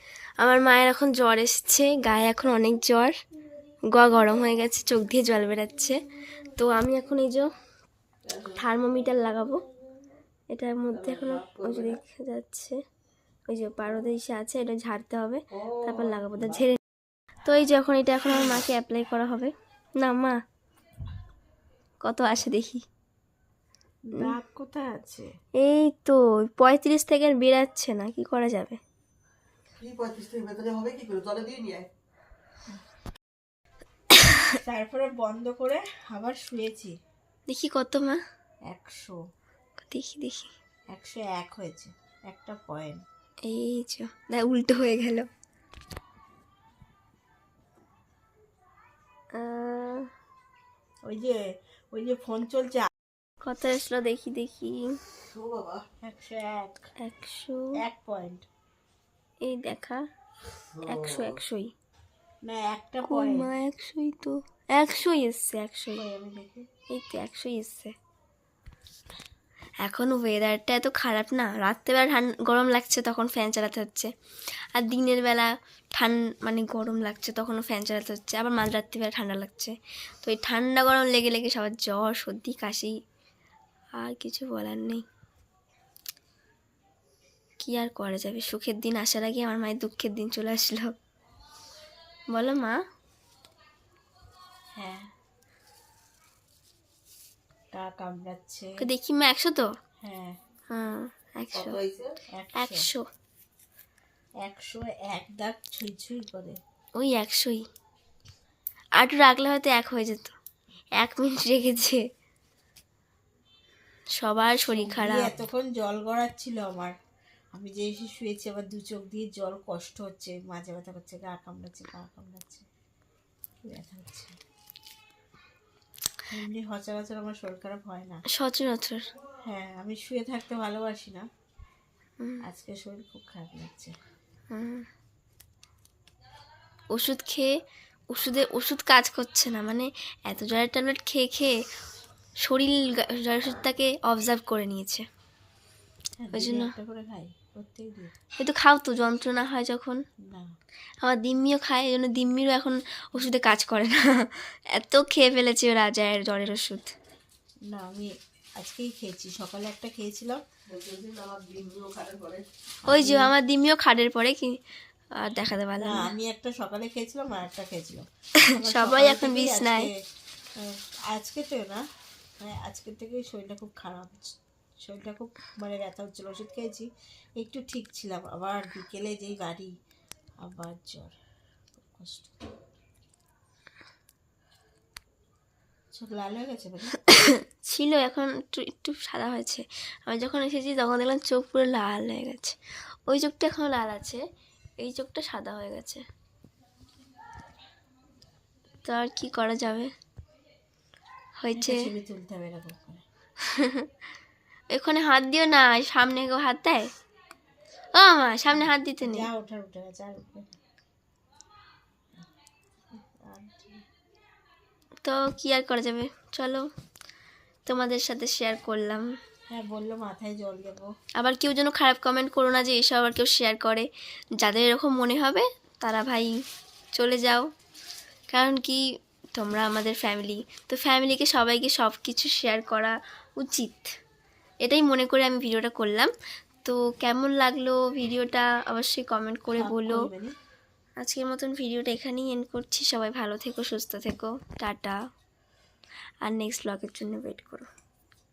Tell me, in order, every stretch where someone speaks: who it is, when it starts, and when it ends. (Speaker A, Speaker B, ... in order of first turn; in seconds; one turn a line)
Speaker A: 0.4-3.1
Speaker A: 3.9-7.5
Speaker A: 8.4-9.6
Speaker A: 10.5-12.8
Speaker B: 11.0-12.0
Speaker A: 13.5-16.8
Speaker B: 15.6-16.4
Speaker A: 17.4-20.4
Speaker A: 22.0-22.9
Speaker C: 24.1-25.3
Speaker A: 25.6-28.8
Speaker B: 29.8-31.9
Speaker A: 34.2-34.5
Speaker C: 34.5-36.9
Speaker A: 37.5-38.2
Speaker C: 38.7-39.2
Speaker A: 39.8-40.5
Speaker C: 40.9-43.0
Speaker A: 43.4-45.3
Speaker A: 49.3-50.1
Speaker C: 51.1-52.9
Speaker A: 53.4-55.0
Speaker B: 55.2-55.9
Speaker C: 56.0-56.9
Speaker A: 57.0-57.8
Speaker C: 57.8-58.5
Speaker A: 59.4-60.0
Speaker A: 60.8-61.7
Speaker C: 62.5-63.5
Speaker A: 63.0-66.0
Speaker C: 66.0-66.7
Speaker A: 66.9-68.0
Speaker A: 69.8-74.1
Speaker A: 74.7-82.9
Speaker A: 84.0-85.0
Speaker A: 87.6-90.9
Speaker A: 92.3-92.8
Speaker C: 94.8-95.1
Speaker C: 97.7-98.7
Speaker A: 98.8-99.7
Speaker C: 100.0-100.4
Speaker A: 100.7-101.8
Speaker B: 101.5-102.2
Speaker C: 102.3-102.9
Speaker A: 102.5-103.1
Speaker C: 104.4-106.6
Speaker A: 107.0-107.7
Speaker A: 109.0-110.3
Speaker A: 111.0-112.0
Speaker A: 114.2-115.4
Speaker C: 114.7-116.9
Speaker C: 117.5-122.7
Speaker C: 123.7-124.4
Speaker C: 126.3-128.2
Speaker A: 128.3-129.1
Speaker C: 129.4-131.3
Speaker C: 132.4-133.9
Speaker A: 134.5-134.9
Speaker A: 136.9-137.5
Speaker A: 138.1-141.6
Speaker A: 142.4-145.1
Speaker C: 146.2-148.1
Speaker A: 146.3-146.7
Speaker A: 148.4-150.0
Speaker C: 150.3-150.6
Speaker A: 151.0-156.9
Speaker C: 157.7-160.4
Speaker B: 160.7-162.4
Speaker C: 162.8-163.3
Speaker A: 162.9-164.6
Speaker A: 165.2-166.1
Speaker C: 165.8-169.9
Speaker A: 168.4-169.9
Speaker C: 170.6-171.8
Speaker C: 172.4-179.7
Speaker C: 180.4-181.2
Speaker C: 181.8-182.4
Speaker C: 185.9-187.0
Speaker A: 187.1-194.2
Speaker A: 194.8-196.0
Speaker A: 198.8-199.9
Speaker A: 201.4-201.9
Speaker C: 201.6-203.0
Speaker A: 203.4-203.9
Speaker A: 204.7-206.9
Speaker A: 207.9-209.3
Speaker C: 209.0-210.6
Speaker C: 213.0-213.8
Speaker A: 215.0-216.7
Speaker A: 217.7-219.1
Speaker C: 219.5-220.9
Speaker A: 221.2-226.3
Speaker A: 226.9-227.5
Speaker A: 228.3-228.8
Speaker A: 229.3-233.9
Speaker A: 234.6-236.1
Speaker A: 236.6-240.1
Speaker C: 239.5-240.3
Speaker A: 241.0-245.0
Speaker A: 246.2-247.7